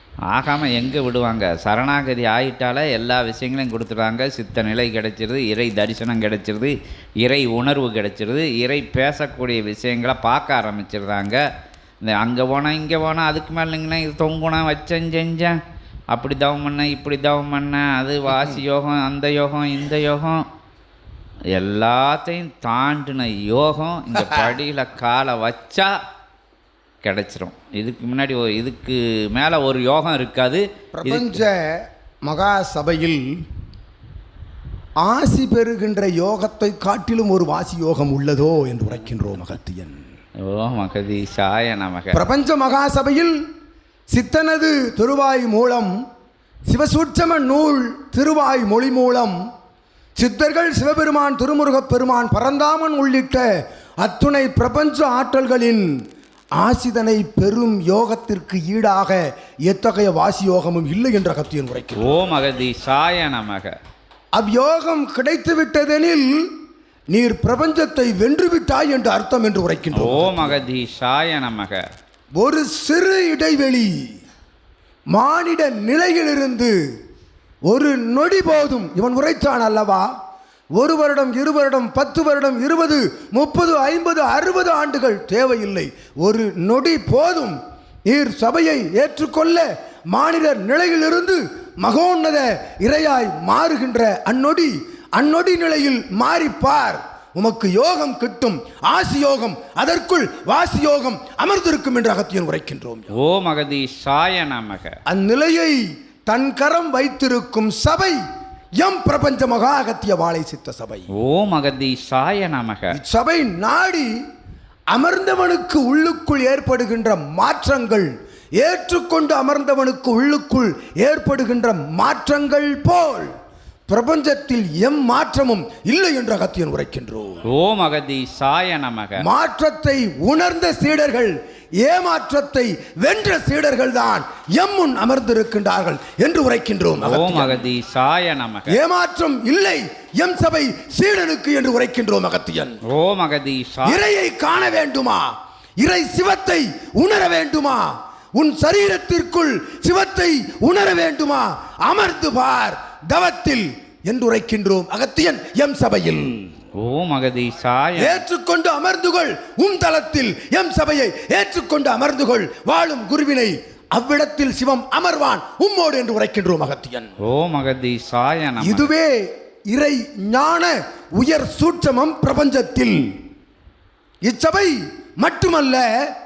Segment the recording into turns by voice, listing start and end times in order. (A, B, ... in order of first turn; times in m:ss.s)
0:00.3-0:11.4 A
0:12.0-0:15.6 A
0:16.1-0:20.4 A
0:21.6-0:25.9 A
0:27.0-0:31.4 A
0:31.0-0:31.7 B
0:32.3-0:33.4 B
0:35.0-0:40.0 B
0:40.4-0:42.2 A
0:42.1-0:43.4 B
0:44.1-0:46.0 B
0:46.7-0:49.4 B
0:50.2-0:53.4 B
0:54.0-0:55.9 B
0:56.6-1:02.1 B
1:02.0-1:03.7 A
1:04.4-1:06.5 B
1:07.1-1:10.6 B
1:10.0-1:11.8 A
1:12.4-1:14.0 B
1:15.1-1:16.7 B
1:17.7-1:20.1 B
1:20.8-1:43.2 B
1:43.1-1:45.0 A
1:45.1-1:48.2 B
1:48.8-1:51.1 B
1:51.2-1:53.0 A
1:52.9-1:54.1 B
1:54.9-2:03.3 B
2:03.9-2:07.3 B
2:07.5-2:09.2 A
2:09.2-2:17.6 B
2:17.0-2:18.8 A
2:18.7-2:22.8 B
2:22.9-2:24.0 A
2:23.8-2:25.3 B
2:25.8-2:36.5 B
2:36.8-2:38.2 A
2:38.0-2:47.1 B
2:47.2-2:48.9 A
2:48.6-2:53.0 B
2:54.3-2:55.9 B